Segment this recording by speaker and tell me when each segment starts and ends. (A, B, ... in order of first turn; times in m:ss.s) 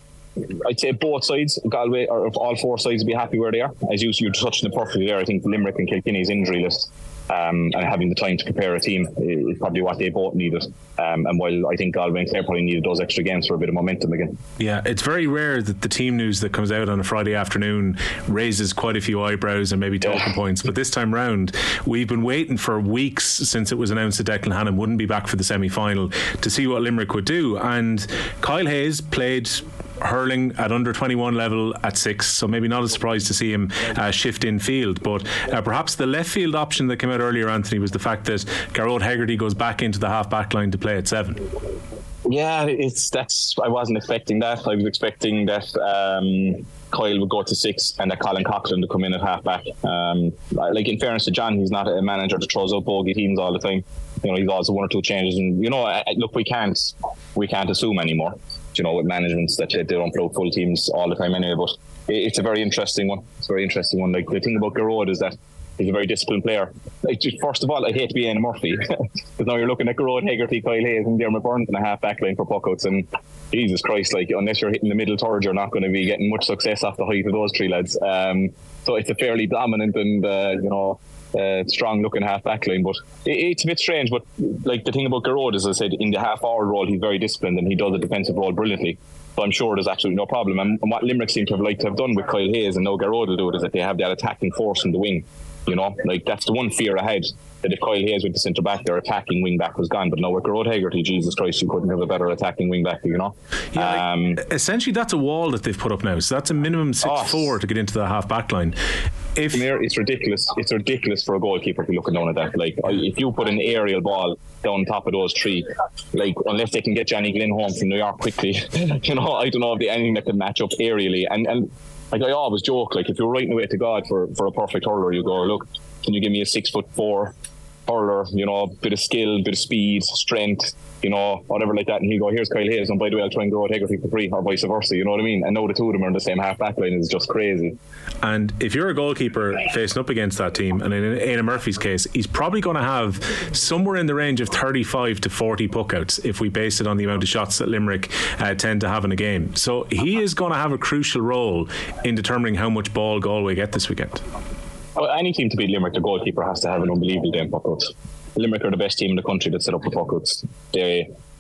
0:00.4-0:14.4 A
0:14.6-0:41.5 B
0:42.3-1:44.4 A
1:43.7-1:48.8 B
1:47.0-1:47.5 A
1:49.4-1:49.6 B
1:49.5-2:07.3 A
2:07.9-2:17.8 A
2:18.2-2:34.2 B
2:35.0-2:41.1 A